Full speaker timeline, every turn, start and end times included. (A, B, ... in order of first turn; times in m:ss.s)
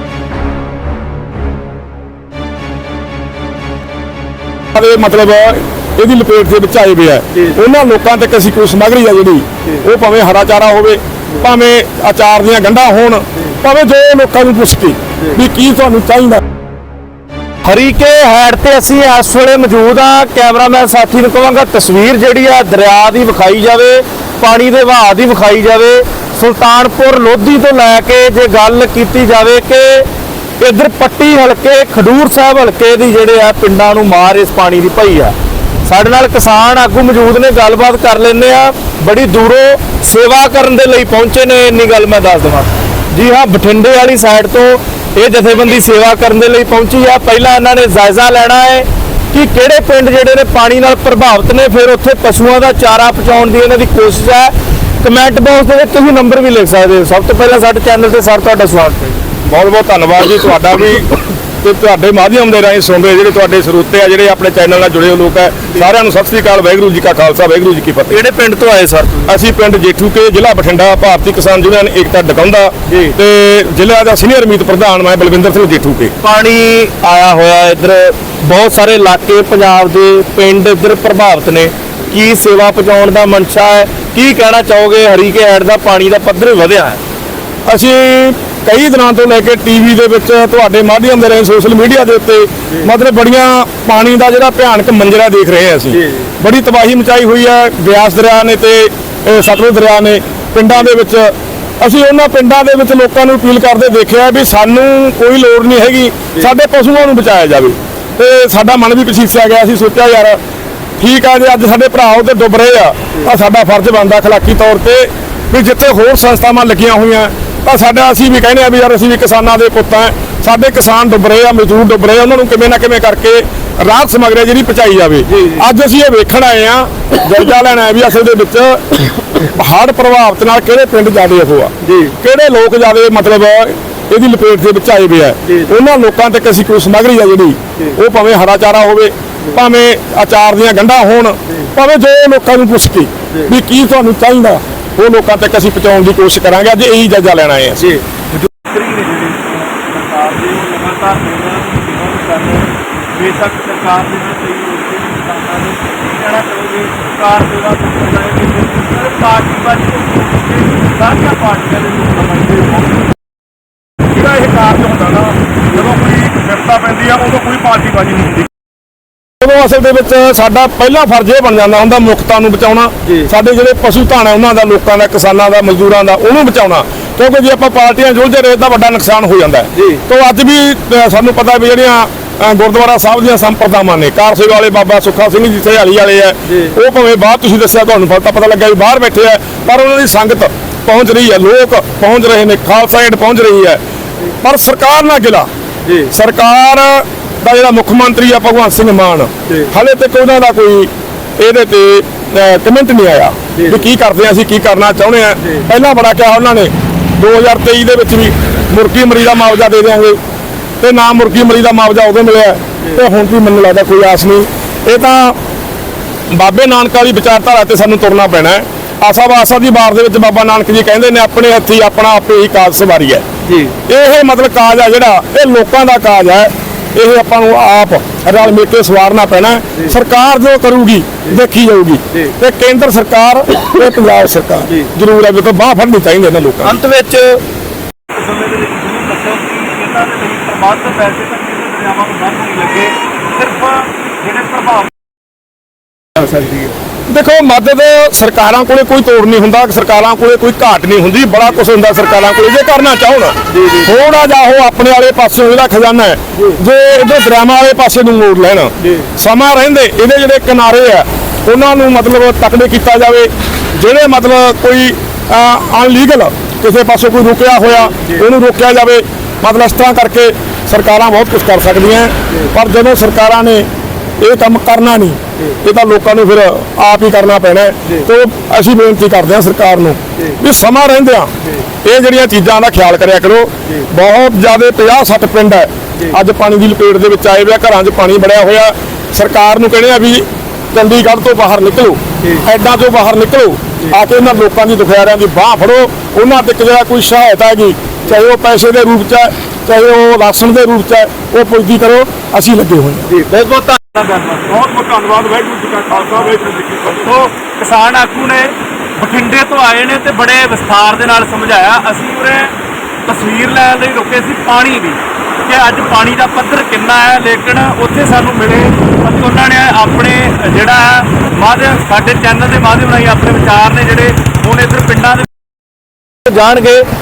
0:04.7-0:16.4 A
0:17.6-0:30.1 B
0:30.6-0:35.4 B
0:35.9-0:59.2 B
0:59.4-1:08.2 A
1:08.1-1:09.4 B
1:09.3-1:16.1 A
1:12.9-1:13.2 B
1:16.2-1:27.0 B
1:27.7-1:50.4 A
1:35.9-1:36.2 B
1:51.0-2:28.0 A
2:05.3-2:05.7 B
2:11.8-2:12.1 B
2:27.8-2:28.2 B
2:28.4-2:43.1 C
2:44.1-2:48.5 A
2:49.4-3:13.8 A
2:59.8-3:00.0 B
3:14.4-3:15.5 A
3:16.1-3:30.2 A
3:30.8-3:35.4 A
3:36.3-3:43.2 A
3:43.5-3:43.7 B
3:43.9-3:56.8 A
3:56.6-3:57.4 B
3:58.1-4:04.9 C
4:06.2-4:06.6 B
4:07.1-4:33.7 A
4:13.5-4:13.9 B
4:34.2-4:41.3 A
4:41.8-5:03.1 A
5:03.1-5:04.6 B
5:04.5-5:07.0 A
5:05.8-5:06.5 C
5:07.0-5:12.6 C
5:07.6-5:08.5 B
5:09.0-5:11.7 B
5:13.1-5:25.3 C
5:13.1-5:13.4 B
5:16.5-5:17.0 B
5:26.3-5:26.9 B